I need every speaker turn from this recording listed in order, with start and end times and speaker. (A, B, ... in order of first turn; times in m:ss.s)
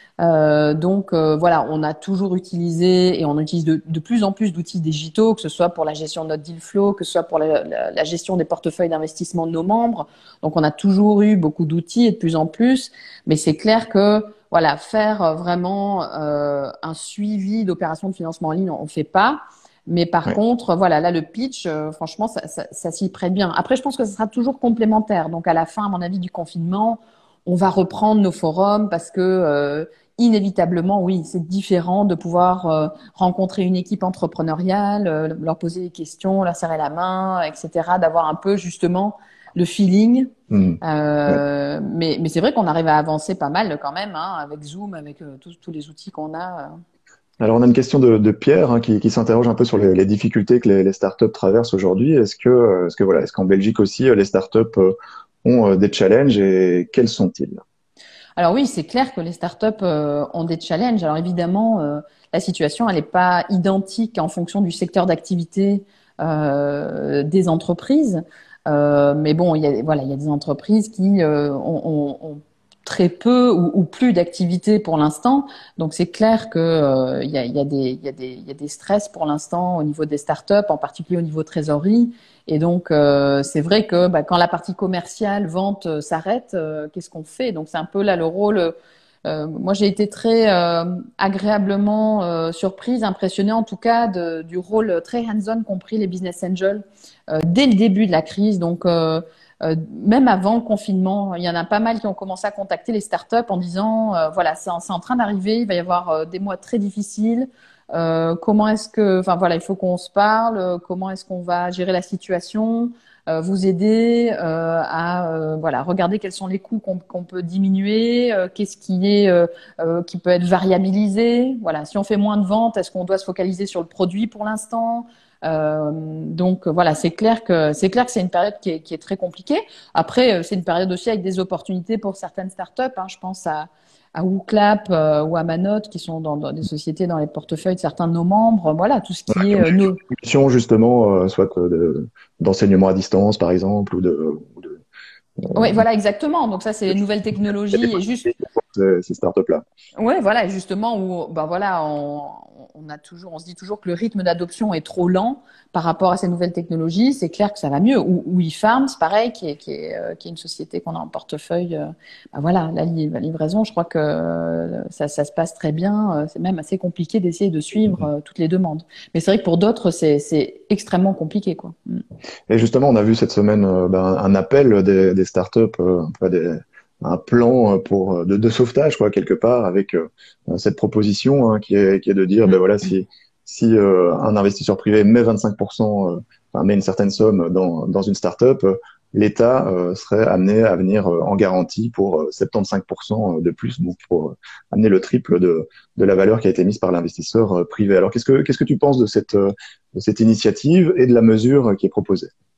0:00.2-0:46.8 A
0:40.5-0:41.4 B
0:47.4-0:57.6 B
0:58.4-2:20.0 A
2:19.3-2:24.8 B
2:25.4-2:25.8 B
2:25.6-2:28.3 A
2:27.7-2:29.6 B
2:30.0-2:52.0 A
2:52.5-3:22.3 B